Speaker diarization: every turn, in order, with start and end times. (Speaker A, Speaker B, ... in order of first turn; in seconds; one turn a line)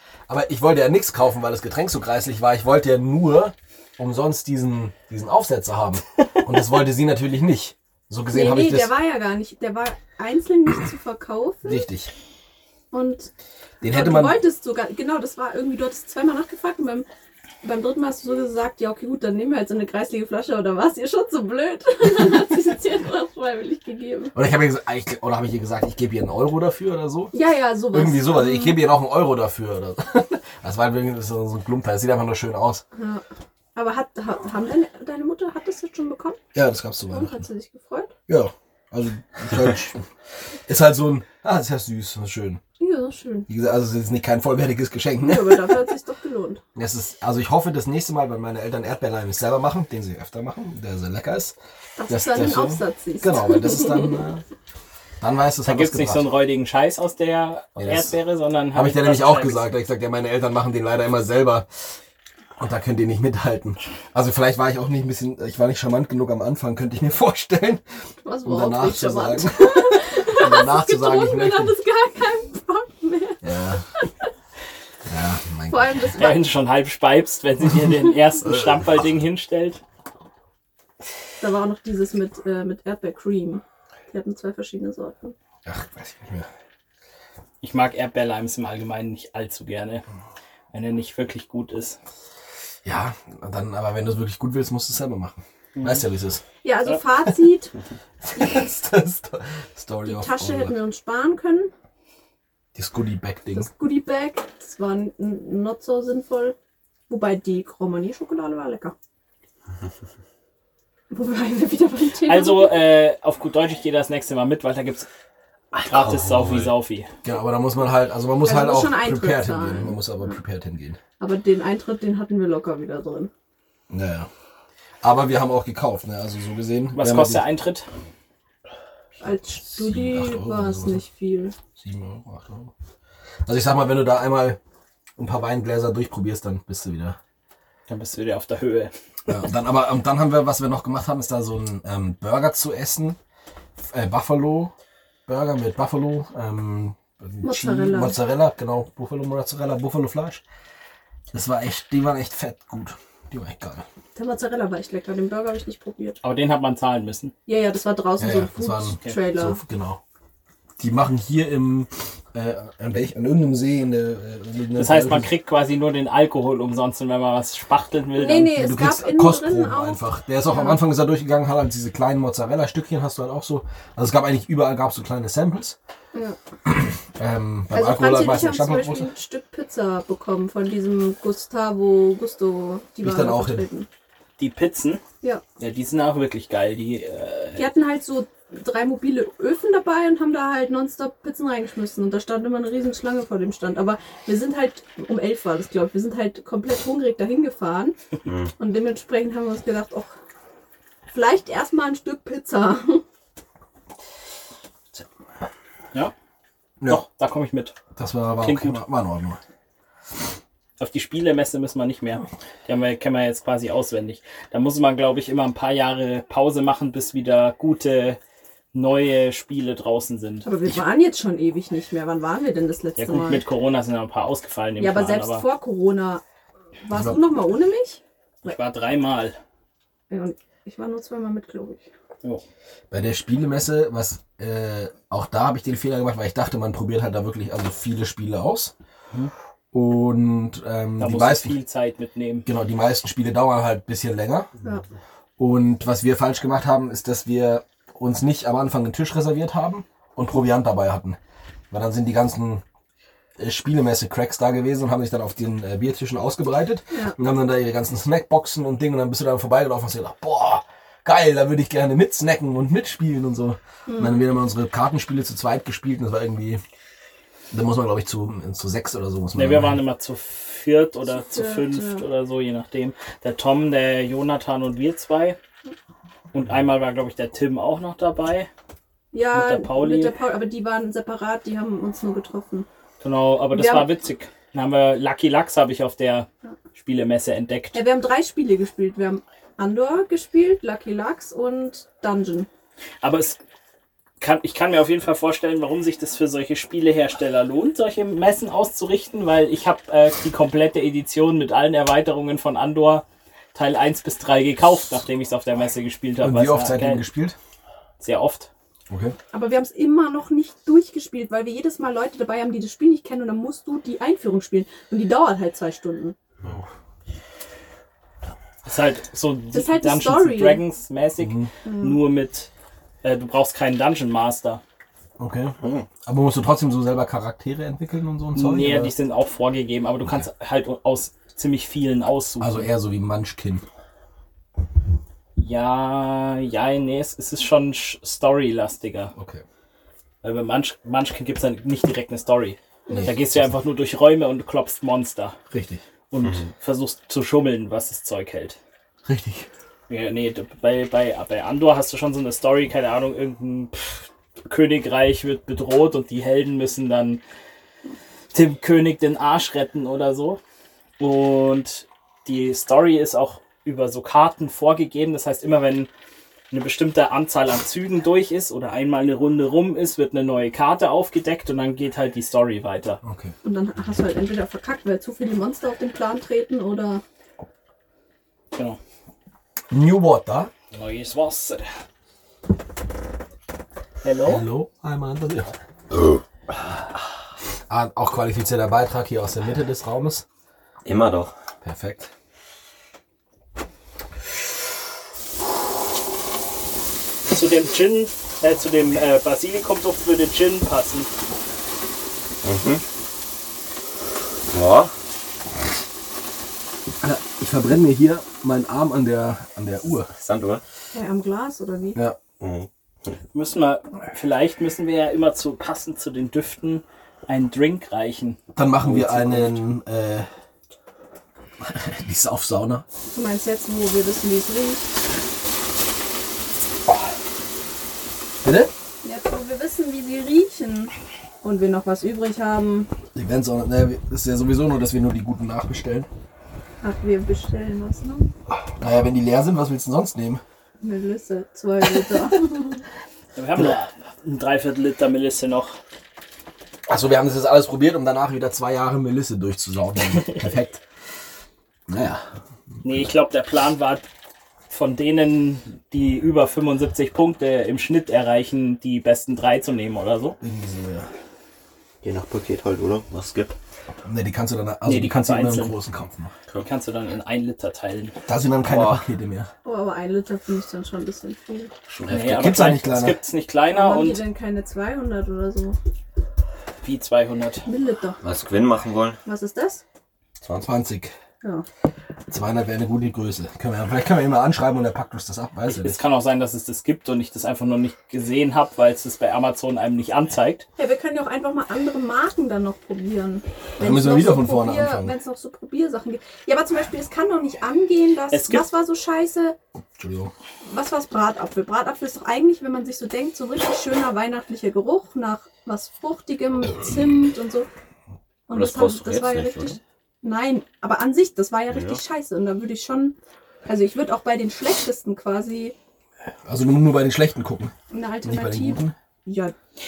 Speaker A: 0.3-8.9
Speaker B: 8.3-11.9
Speaker A: 11.6-12.1
Speaker B: 12.9-13.3
Speaker A: 13.8-14.4
Speaker B: 13.8-17.1
Speaker B: 17.6-24.3
Speaker A: 24.3-27.3
Speaker B: 27.3-28.8
Speaker A: 27.9-32.8
Speaker B: 32.9-33.2
Speaker B: 33.7-36.4
Speaker A: 36.5-37.5
Speaker B: 37.1-38.1
Speaker A: 38.3-40.0
Speaker A: 40.7-42.6
Speaker B: 42.8-43.5
Speaker A: 43.5-45.8
Speaker B: 45.2-46.6
Speaker A: 46.7-51.5
Speaker B: 52.0-54.1
Speaker A: 52.1-54.4
Speaker A: 55.2-56.3
Speaker C: 55.6-59.7
Speaker A: 57.8-58.1
Speaker A: 58.7-61.7
Speaker A: 62.6-67.8
Speaker B: 68.2-73.4
Speaker A: 68.4-71.7
Speaker A: 73.4-73.8
Speaker A: 75.1-76.0
Speaker B: 75.7-76.4
Speaker C: 76.2-79.8
Speaker A: 78.4-78.8
Speaker B: 81.4-85.3
Speaker A: 85.6-86.5
Speaker C: 87.6-90.0
Speaker C: 90.7-92.0
Speaker A: 92.8-96.4
Speaker C: 95.8-96.0
Speaker B: 96.6-97.7
Speaker A: 98.2-100.8
Speaker B: 100.0-101.7
Speaker A: 102.7-103.7
Speaker B: 103.5-106.5
Speaker B: 107.1-108.9
Speaker B: 111.1-112.9
Speaker C: 112.2-115.1
Speaker D: 115.7-116.7
Speaker C: 115.8-117.1
Speaker A: 117.2-121.0
Speaker B: 118.4-120.3
Speaker B: 121.2-123.3
Speaker A: 123.9-124.3
Speaker A: 125.0-127.4
Speaker C: 126.9-127.9
Speaker B: 129.2-131.5
Speaker A: 129.7-131.0
Speaker A: 131.8-132.7
Speaker A: 133.4-134.6
Speaker A: 135.2-137.2
Speaker C: 137.9-139.3
Speaker A: 139.3-143.2
Speaker A: 143.8-144.7
Speaker A: 145.3-150.4
Speaker B: 147.4-148.2
Speaker A: 151.3-153.8
Speaker B: 154.1-156.2
Speaker C: 156.2-157.3
Speaker B: 157.4-159.6
Speaker A: 158.2-160.0
Speaker A: 160.8-165.3
Speaker C: 164.8-168.5
Speaker B: 168.1-170.8
Speaker A: 168.5-175.8
Speaker B: 176.1-176.4
Speaker A: 176.7-179.1
Speaker B: 177.7-183.9
Speaker A: 183.0-183.7
Speaker C: 184.4-185.0
Speaker C: 185.6-187.7
Speaker B: 187.6-197.9
Speaker D: 198.2-198.5
Speaker B: 198.6-200.1
Speaker B: 201.1-203.0
Speaker C: 206.8-207.7
Speaker A: 207.9-209.4
Speaker C: 208.4-208.8
Speaker C: 210.8-218.2
Speaker C: 218.7-220.5
Speaker B: 220.4-223.4
Speaker C: 223.0-225.4
Speaker B: 224.8-226.2
Speaker B: 226.8-228.5
Speaker A: 226.9-227.2
Speaker C: 228.4-229.4
Speaker B: 230.1-231.9
Speaker A: 232.9-238.7
Speaker A: 239.7-241.6
Speaker C: 241.0-242.5
Speaker A: 242.4-244.5
Speaker A: 245.4-251.2
Speaker A: 251.7-252.6
Speaker A: 253.4-266.6
Speaker B: 263.9-264.2
Speaker A: 267.5-269.8
Speaker C: 269.3-275.4
Speaker B: 271.1-272.0
Speaker C: 276.3-278.5
Speaker B: 279.1-282.7
Speaker C: 279.3-280.1
Speaker C: 283.0-287.8
Speaker B: 283.5-283.9
Speaker B: 287.7-292.5
Speaker C: 293.0-293.4
Speaker C: 294.2-307.0
Speaker A: 306.2-307.4
Speaker C: 308.0-308.5
Speaker A: 308.9-309.2
Speaker B: 309.3-316.2
Speaker C: 318.6-322.5
Speaker B: 319.5-320.6
Speaker A: 321.2-321.5
Speaker B: 321.6-322.0
Speaker C: 323.0-324.6
Speaker A: 325.2-328.9
Speaker C: 328.3-332.7
Speaker A: 332.4-333.6
Speaker C: 335.4-339.1
Speaker A: 339.1-339.4
Speaker C: 340.2-345.4
Speaker B: 342.9-343.1
Speaker A: 342.9-343.5
Speaker A: 345.5-345.8
Speaker C: 346.1-348.6
Speaker D: 346.2-346.5
Speaker A: 349.1-349.5
Speaker C: 349.9-357.2
Speaker C: 358.3-360.4
Speaker C: 361.0-365.9
Speaker C: 366.5-373.0
Speaker A: 373.0-373.3
Speaker B: 373.4-377.0
Speaker C: 378.5-378.8
Speaker A: 379.7-380.5
Speaker C: 380.7-381.7
Speaker C: 384.0-384.5
Speaker A: 384.2-385.5
Speaker A: 387.7-390.2
Speaker D: 390.8-391.3
Speaker A: 391.6-392.1
Speaker C: 397.3-401.1
Speaker D: 402.4-402.8
Speaker D: 404.5-404.9
Speaker A: 407.0-410.1
Speaker D: 410.1-410.6
Speaker B: 410.9-412.0
Speaker D: 412.4-413.1
Speaker C: 413.3-419.6
Speaker A: 418.6-420.3
Speaker A: 421.6-422.8
Speaker B: 423.1-424.9
Speaker A: 428.4-428.7
Speaker B: 429.0-432.9
Speaker A: 433.1-436.1
Speaker B: 436.8-438.3
Speaker A: 438.7-440.4
Speaker B: 440.8-442.8
Speaker C: 443.3-445.8
Speaker A: 446.9-450.8
Speaker A: 451.9-452.2
Speaker C: 452.8-454.1
Speaker C: 454.7-460.4
Speaker A: 460.4-461.1
Speaker D: 462.0-463.6
Speaker A: 464.1-466.3
Speaker C: 464.8-465.7
Speaker C: 466.6-468.2
Speaker A: 468.2-469.5
Speaker D: 468.6-469.1
Speaker B: 469.6-471.7
Speaker D: 471.9-472.7
Speaker C: 472.1-474.2
Speaker A: 472.2-473.2
Speaker B: 473.7-475.8
Speaker C: 476.8-477.7
Speaker B: 477.6-478.2
Speaker D: 478.2-479.2
Speaker B: 479.2-479.8
Speaker A: 480.4-481.1
Speaker A: 482.3-486.0
Speaker C: 485.7-490.7
Speaker B: 490.8-499.6
Speaker A: 493.8-495.2
Speaker C: 498.3-498.6
Speaker A: 500.0-500.3
Speaker B: 500.6-507.7
Speaker B: 508.5-515.7
Speaker D: 508.5-509.8
Speaker D: 511.7-512.0
Speaker A: 516.5-518.9
Speaker B: 517.9-519.5